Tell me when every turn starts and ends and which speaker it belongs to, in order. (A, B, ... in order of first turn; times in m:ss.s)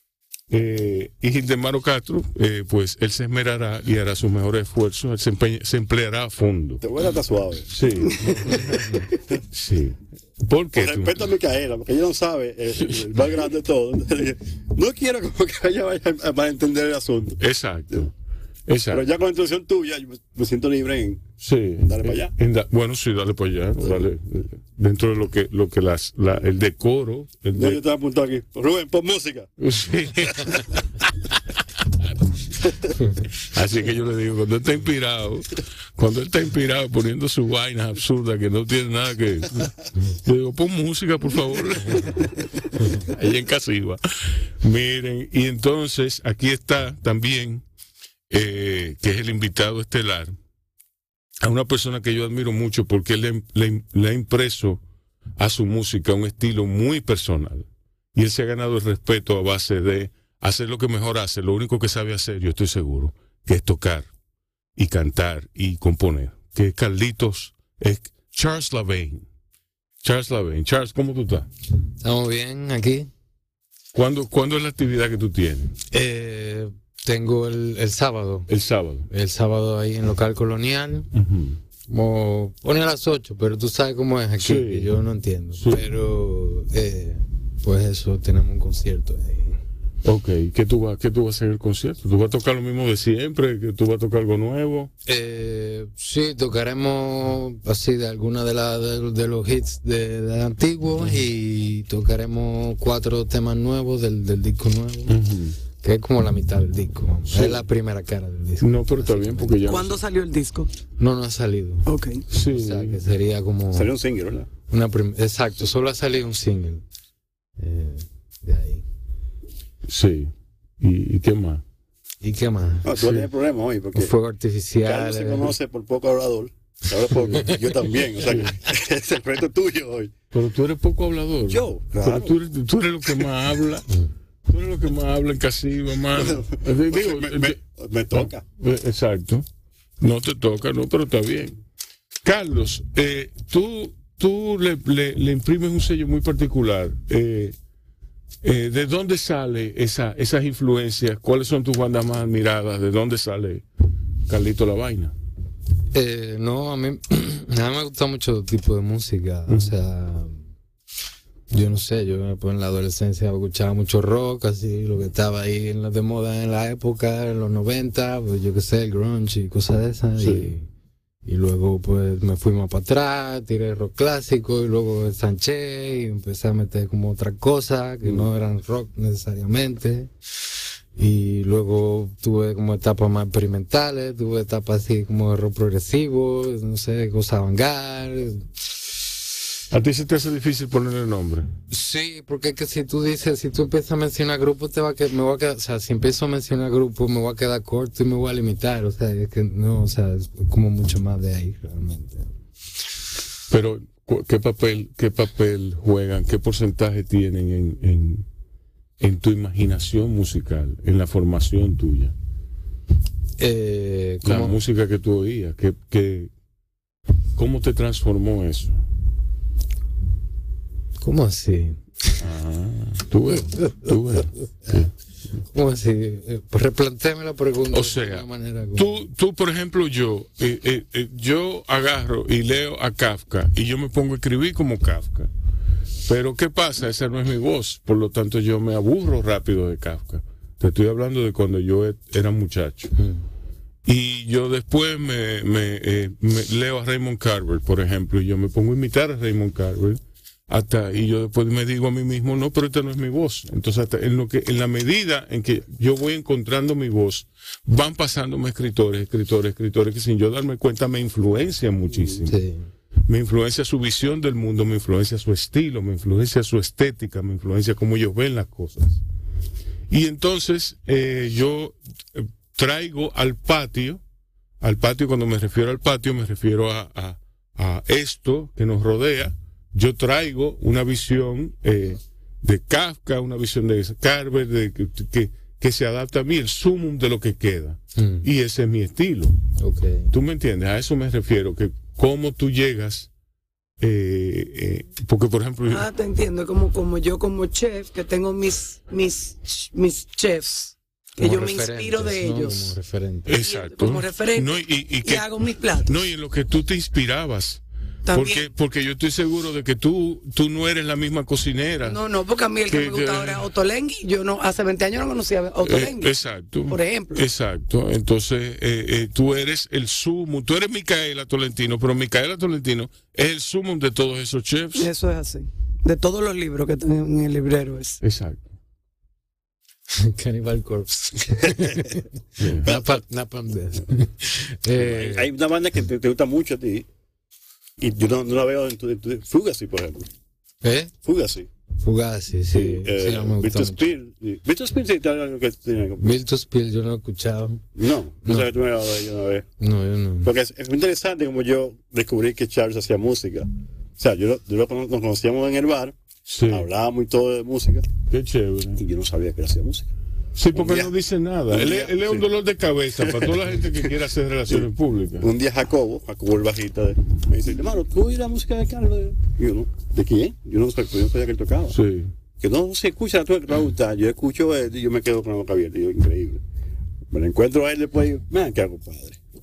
0:00.5-0:06.8 A
0:06.8-0:09.4 B
0:07.7-0:11.2 A
0:10.8-0:17.4 B
0:17.4-0:18.1 A
0:18.7-0:19.0 A
0:18.9-0:21.2 B
0:21.4-0:27.8 A
0:21.8-0:22.3 B
0:27.6-0:29.5 B
0:29.6-0:30.8 A
0:33.4-0:47.6 A
0:48.3-0:50.4 A
0:51.4-0:54.8 A
0:55.4-1:04.1 A
1:04.8-1:09.3 A
1:10.0-1:11.5 A
1:12.0-1:13.1 C
1:13.9-1:15.8 A
1:15.9-1:18.5 C
1:18.5-1:19.1 A
1:19.1-1:21.1 C
1:21.1-1:21.6 A
1:21.9-1:29.6 C
1:24.4-1:24.9 A
1:25.6-1:25.9 A
1:30.0-1:34.9 A
1:35.0-1:45.2 C
1:45.1-1:45.6 A
1:45.8-1:49.6 C
1:47.3-1:47.6 A
1:48.6-1:50.0 A
1:49.6-1:50.7 D
1:51.0-1:51.9 C
1:51.9-1:52.2 D
1:52.3-1:53.0 A
1:52.5-1:53.9 C
1:53.7-1:54.5 B
1:54.7-1:56.8 C
1:57.6-1:58.8 C
1:59.9-2:01.6 A
2:02.2-2:02.9 C
2:02.8-2:04.1 B
2:03.0-2:03.3 A
2:04.0-2:05.6 C
2:04.8-2:10.1 B
2:07.1-2:07.6 A
2:08.2-2:08.5 A
2:10.3-2:17.6 A
2:11.5-2:12.4 B
2:16.2-2:18.4 B
2:18.1-2:19.5 A
2:20.0-2:21.6 A
2:22.2-2:27.6 A
2:28.4-2:33.6 A
2:34.3-2:35.1 A
2:35.9-2:40.4 C
2:39.5-2:39.8 A
2:41.5-2:50.7 C
2:50.2-2:50.5 A
2:51.2-3:00.1 C
3:01.0-3:08.9 C
3:09.7-3:11.5 A
3:11.7-3:22.3 C
3:23.5-3:28.3 A
3:29.0-3:32.1 A
3:33.4-3:34.6 C
3:34.2-3:36.3 A
3:37.4-3:38.8 A
3:41.0-3:42.2 C
3:42.2-3:44.9 A
3:45.5-3:49.0 C
3:47.7-3:55.3 A
3:56.0-4:02.9 A
4:03.0-4:03.2 C
4:03.8-4:22.4 A
4:22.2-4:22.7 C
4:23.1-4:29.0 A
4:29.9-4:34.0 A
4:34.6-4:49.4 A
4:48.0-4:48.3 C
4:49.6-4:50.1 C
4:50.1-4:53.1 A
4:53.8-4:55.9 A
4:55.7-5:02.8 D
5:01.2-5:03.4 C
5:03.3-5:05.3 A
5:03.3-5:06.0 D
5:05.8-5:12.0 A
5:08.1-5:08.5 D
5:11.8-5:16.1 D
5:12.7-5:13.5 A
5:15.6-5:24.9 A
5:16.7-5:17.2 D
5:24.8-5:28.0 D
5:28.0-5:28.5 A
5:29.9-5:35.3 C
5:32.4-5:32.7 A
5:32.6-5:33.0 B
5:34.8-5:36.9 B
5:37.8-5:40.1 B
5:40.6-5:40.9 C
5:41.0-5:41.5 B
5:41.8-5:43.9 C
5:42.5-5:46.2 B
5:46.0-5:47.6 C
5:47.8-5:49.5 B
5:49.6-5:50.3 C
5:50.2-5:56.0 B
5:56.3-5:56.7 A
5:56.5-5:57.9 B
5:58.1-5:58.8 A
5:58.8-5:59.9 B
6:00.4-6:05.3 A
6:00.5-6:00.9 B
6:01.5-6:02.3 B
6:03.0-6:03.9 B
6:05.2-6:11.8 B
6:11.7-6:12.1 A
6:12.4-6:16.4 B
6:17.1-6:19.2 B